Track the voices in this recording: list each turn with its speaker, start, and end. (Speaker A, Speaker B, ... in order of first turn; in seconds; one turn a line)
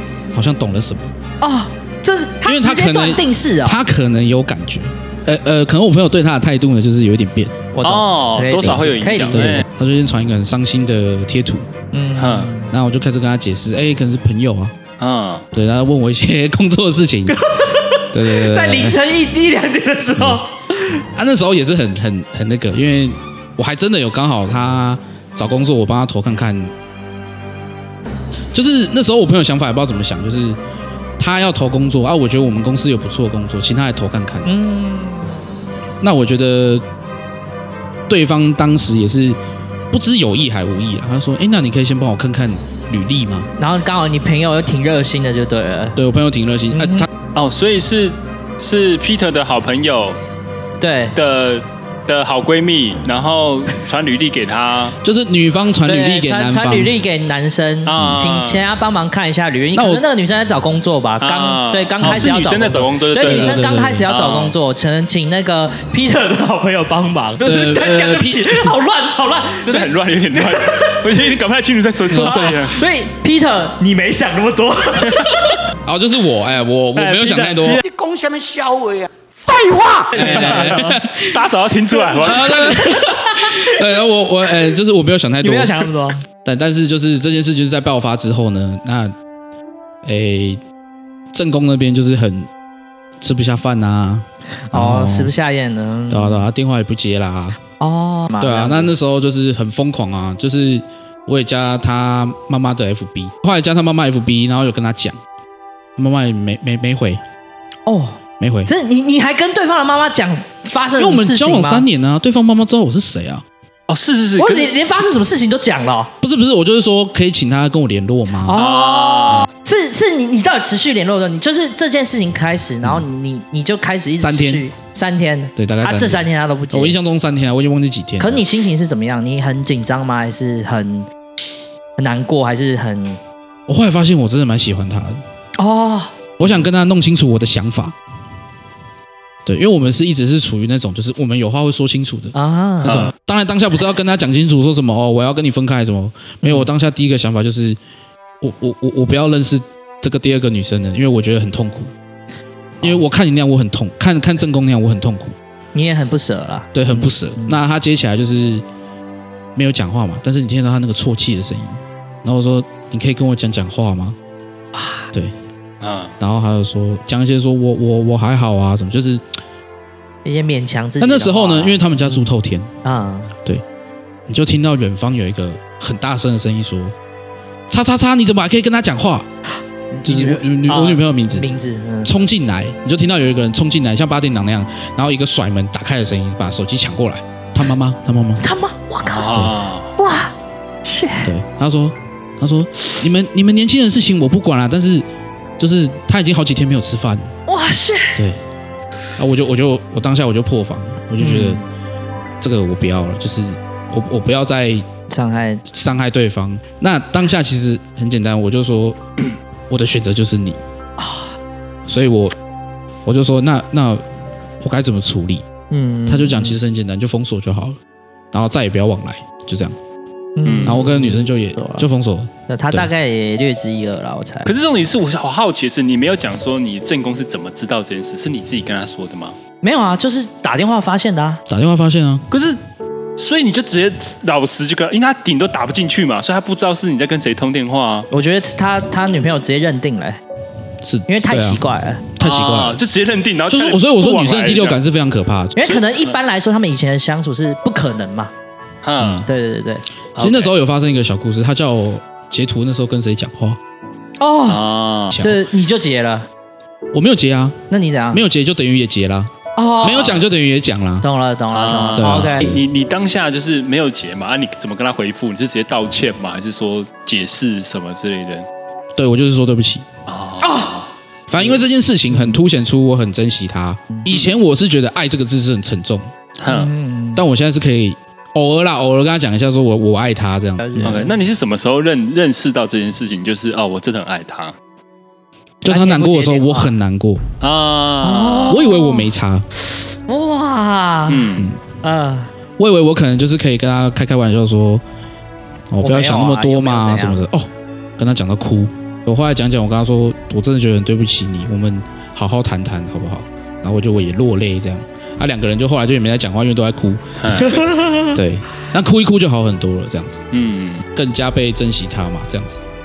Speaker A: 0.3-1.1
Speaker B: 1.4-3.8
Speaker A: 2.4-7.6
Speaker B: 7.7-9.6
Speaker C: 7.8-9.7
Speaker A: 8.6-11.7
Speaker B: 11.9-12.7
Speaker C: 12.2-12.5
Speaker A: 12.7-14.7
Speaker C: 15.0-15.4
Speaker A: 15.5-17.4
Speaker B: 17.3-21.0
Speaker A: 18.1-19.0
Speaker A: 21.1-26.7
Speaker A: 28.5-30.6
Speaker A: 31.2-34.5
Speaker B: 34.4-35.4
Speaker A: 36.0-36.8
Speaker A: 38.1-39.4
Speaker A: 39.9-43.5
Speaker B: 43.6-46.0
Speaker A: 46.0-47.1
Speaker B: 46.7-47.1
Speaker C: 47.3-50.2
Speaker B: 50.8-51.1
Speaker C: 51.1-55.0
Speaker A: 55.0-56.9
Speaker B: 55.8-71.1
Speaker C: 57.9-58.6
Speaker A: 59.7-60.0
Speaker C: 61.2-64.5
Speaker A: 62.0-62.3
Speaker A: 63.2-64.0
Speaker A: 67.4-68.7
Speaker C: 69.6-72.8
Speaker B: 72.1-75.6
Speaker A: 75.7-77.8
Speaker B: 76.9-77.8
Speaker D: 77.7-80.2
Speaker B: 80.1-81.0
Speaker A: 80.2-81.3
Speaker C: 80.2-82.8
Speaker A: 82.2-85.9
Speaker B: 82.4-83.7
Speaker B: 85.4-86.2
Speaker A: 86.4-89.1
Speaker A: 90.0-90.6
Speaker A: 91.3-92.5
Speaker A: 93.2-95.3
Speaker B: 94.7-96.5
Speaker A: 96.1-97.6
Speaker B: 97.8-98.9
Speaker A: 98.4-105.2
Speaker A: 106.0-107.2
Speaker B: 107.8-111.8
Speaker A: 108.4-108.7
Speaker A: 111.0-113.4
Speaker C: 113.9-114.8
Speaker B: 114.4-116.1
Speaker A: 116.2-118.6
Speaker B: 118.4-126.9
Speaker C: 118.5-119.5
Speaker A: 124.2-124.6
Speaker A: 125.5-128.4
Speaker B: 128.2-131.1
Speaker B: 132.0-133.2
Speaker A: 133.7-135.2
Speaker B: 135.6-136.1
Speaker A: 136.4-137.9
Speaker A: 139.4-147.8
Speaker B: 142.3-143.1
Speaker C: 142.8-143.1
Speaker B: 146.4-146.7
Speaker A: 148.4-151.9
Speaker A: 152.8-155.3
Speaker B: 155.7-157.5
Speaker A: 156.7-158.6
Speaker A: 159.6-164.2
Speaker B: 164.7-165.1
Speaker C: 165.8-166.1
Speaker A: 166.2-169.2
Speaker B: 170.2-172.3
Speaker A: 171.0-172.7
Speaker B: 172.8-173.3
Speaker A: 174.3-176.9
Speaker A: 177.7-179.3
Speaker B: 179.9-182.2
Speaker A: 180.0-181.5
Speaker A: 182.0-188.4
Speaker B: 188.4-190.3
Speaker C: 189.0-189.9
Speaker B: 190.8-191.3
Speaker A: 191.2-195.1
Speaker A: 195.6-197.3
Speaker B: 197.5-198.2
Speaker A: 198.2-198.4
Speaker A: 199.2-201.6
Speaker B: 201.2-201.6
Speaker A: 202.4-204.8
Speaker B: 205.1-205.6
Speaker A: 205.7-209.0
Speaker A: 209.7-210.6
Speaker B: 211.0-211.3
Speaker A: 211.9-212.3
Speaker A: 213.1-214.0
Speaker A: 214.6-215.4
Speaker B: 215.7-216.6
Speaker A: 216.1-217.8
Speaker A: 218.3-219.8
Speaker B: 220.4-221.8
Speaker C: 220.4-220.8
Speaker A: 220.6-222.9
Speaker B: 222.5-224.5
Speaker C: 224.4-229.3
Speaker B: 229.6-231.4
Speaker A: 231.5-232.3
Speaker C: 232.3-232.6
Speaker C: 233.2-238.1
Speaker B: 238.1-240.2
Speaker A: 240.8-241.6
Speaker B: 241.1-242.0
Speaker A: 242.2-242.8
Speaker C: 242.2-244.8
Speaker A: 243.5-245.7
Speaker B: 245.6-248.3
Speaker C: 245.6-246.0
Speaker C: 248.8-249.3
Speaker A: 249.0-249.2
Speaker B: 249.2-249.8
Speaker A: 250.2-253.6
Speaker C: 250.2-250.5
Speaker B: 254.2-254.6
Speaker C: 254.4-255.2
Speaker A: 255.1-255.4
Speaker B: 255.2-256.3
Speaker A: 256.9-261.1
Speaker B: 257.7-258.2
Speaker B: 259.6-260.2
Speaker B: 261.0-262.5
Speaker C: 261.5-268.4
Speaker A: 262.0-262.6
Speaker A: 268.9-269.8
Speaker C: 270.1-270.9
Speaker B: 270.4-270.8
Speaker A: 271.3-276.1
Speaker B: 272.1-272.4
Speaker C: 276.4-276.7
Speaker B: 276.4-277.2
Speaker A: 277.1-280.9
Speaker B: 280.6-281.1
Speaker C: 280.8-284.5
Speaker A: 285.6-287.2
Speaker B: 285.6-286.7
Speaker C: 287.4-288.6
Speaker B: 288.0-289.1
Speaker A: 288.5-289.4
Speaker B: 290.1-292.3
Speaker C: 291.1-291.5
Speaker A: 292.6-294.8
Speaker A: 295.7-310.2
Speaker B: 295.8-297.2
Speaker C: 307.2-307.6
Speaker B: 307.4-308.2
Speaker C: 310.3-310.8
Speaker A: 310.9-312.6